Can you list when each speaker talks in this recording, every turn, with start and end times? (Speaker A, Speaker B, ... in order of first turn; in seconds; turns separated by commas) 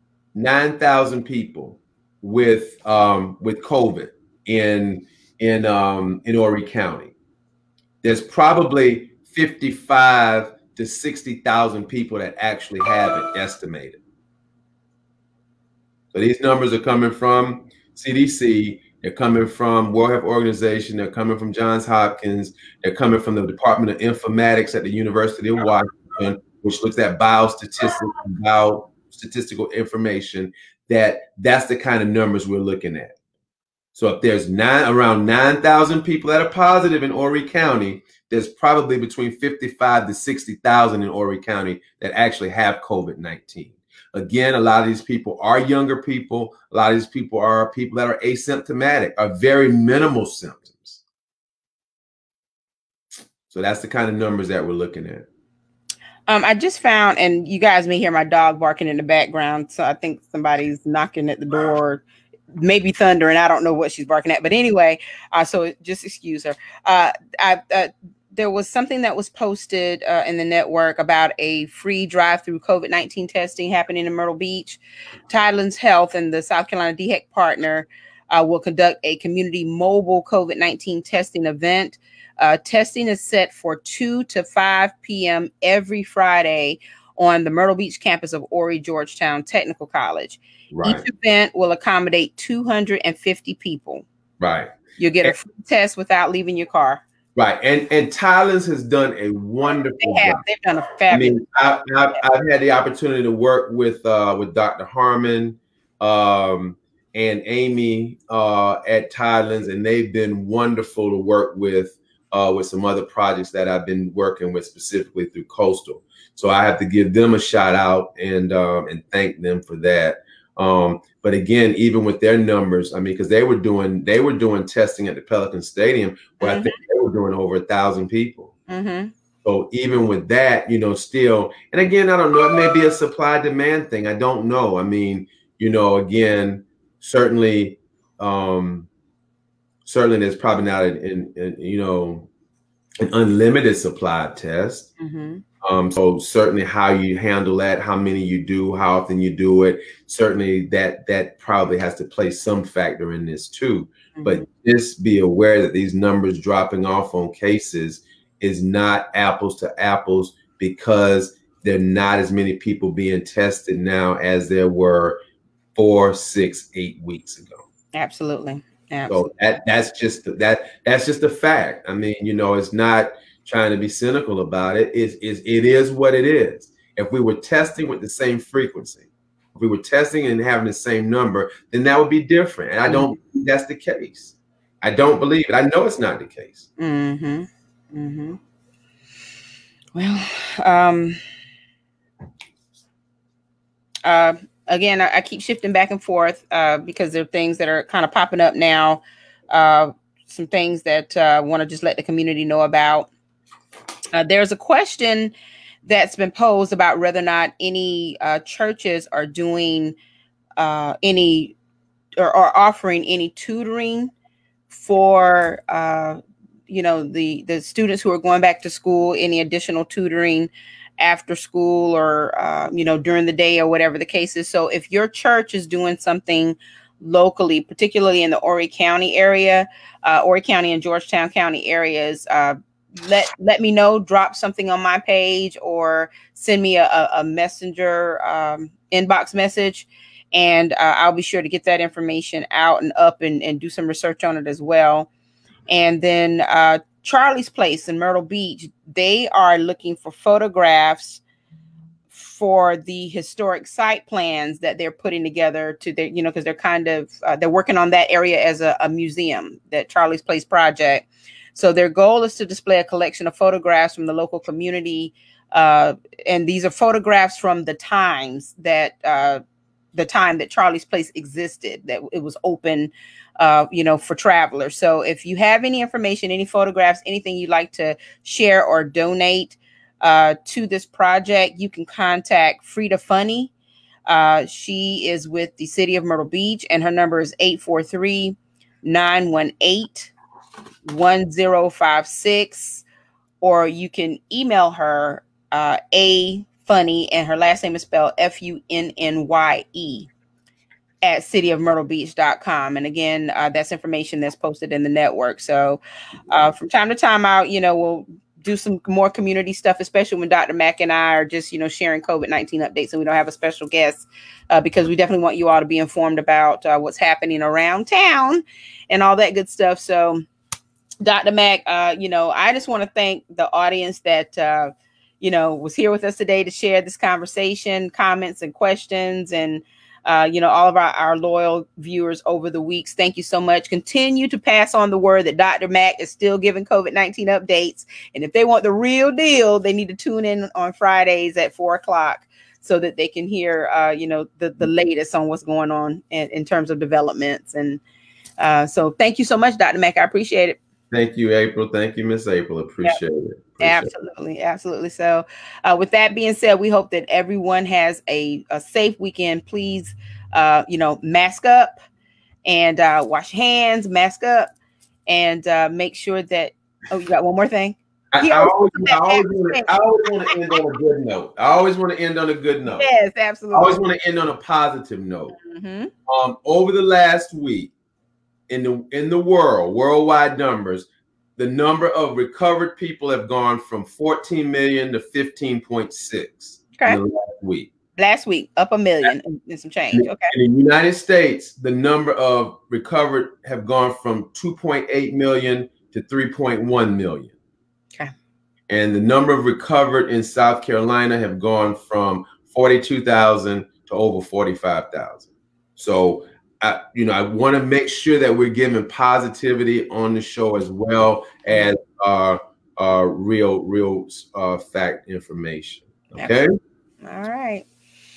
Speaker A: 0.3-7.1, Speaker A: 8.0-14.0, Speaker A: 16.1-33.2, Speaker A: 34.0-51.0, Speaker A: 53.5-55.3, Speaker B: 56.3-62.0, Speaker B: 62.5-94.0, Speaker A: 90.7-91.0, Speaker A: 94.4-95.3, Speaker B: 95.0-97.0, Speaker A: 97.4-100.4, Speaker B: 100.0-101.4, Speaker A: 101.1-128.5, Speaker B: 126.4-126.8, Speaker B: 128.7-129.1, Speaker A: 129.4-138.9, Speaker A: 139.8-142.3, Speaker A: 143.0-144.9, Speaker B: 145.0-145.4, Speaker A: 145.6-165.2, Speaker B: 154.2-154.5, Speaker A: 165.8-167.7, Speaker B: 167.9-169.3, Speaker A: 169.1-186.7, Speaker B: 182.9-183.2, Speaker B: 186.8-188.4, Speaker B: 189.9-191.2, Speaker B: 194.0-203.1, Speaker B: 204.1-205.3, Speaker B: 205.8-209.9, Speaker B: 210.6-211.6, Speaker B: 212.2-214.1, Speaker B: 214.7-245.1, Speaker B: 245.7-251.2, Speaker B: 252.1-269.4, Speaker B: 269.9-283.5, Speaker B: 284.1-290.1, Speaker B: 290.9-292.9, Speaker B: 293.4-300.1, Speaker B: 301.0-320.2, Speaker B: 321.0-347.8, Speaker B: 348.4-350.6, Speaker A: 350.9-353.9, Speaker B: 353.6-361.8, Speaker B: 362.5-364.5, Speaker B: 365.1-369.7, Speaker A: 368.1-372.9, Speaker B: 372.7-373.8, Speaker A: 373.5-375.3, Speaker B: 375.3-375.9, Speaker A: 376.1-377.7, Speaker A: 378.5-387.7, Speaker B: 388.0-390.3, Speaker A: 389.9-397.3, Speaker A: 398.7-416.5, Speaker B: 417.0-417.6